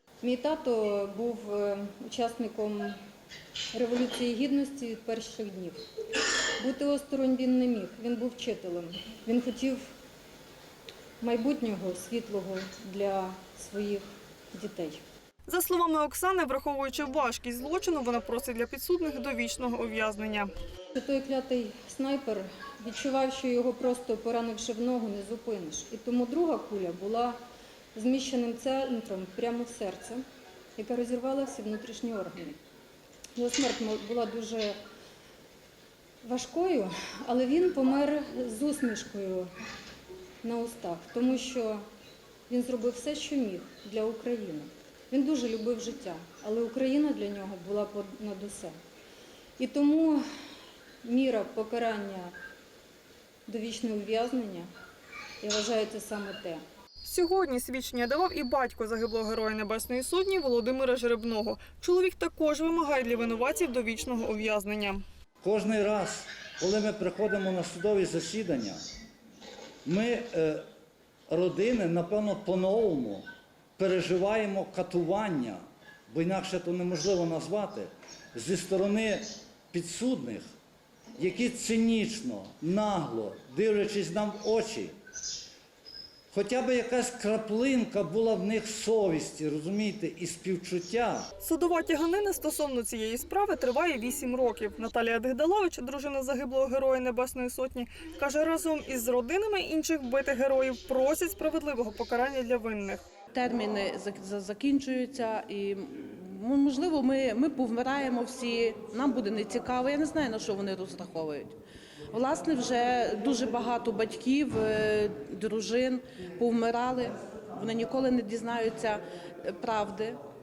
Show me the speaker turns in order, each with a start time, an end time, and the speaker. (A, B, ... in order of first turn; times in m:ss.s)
0:00.2-0:03.0 A
0:03.7-0:05.8 A
0:06.6-0:09.8 A
0:11.2-0:15.0 A
0:15.5-0:20.5 B
0:21.0-0:27.4 A
0:28.0-0:30.2 A
0:30.8-0:32.6 A
0:33.4-0:34.8 A
0:36.2-0:39.5 A
0:40.4-0:41.8 A
0:42.5-0:48.7 A
0:49.6-0:50.2 A
0:51.0-0:52.3 A
0:53.5-0:54.7 A
0:55.4-0:56.6 A
0:57.0-1:05.0 B
1:05.4-1:08.8 C
1:09.8-1:10.7 C
1:11.3-1:20.5 C
1:21.2-1:25.0 C
1:26.3-1:31.3 C
1:31.4-1:43.0 B
1:43.3-1:51.6 D
1:52.1-2:00.2 D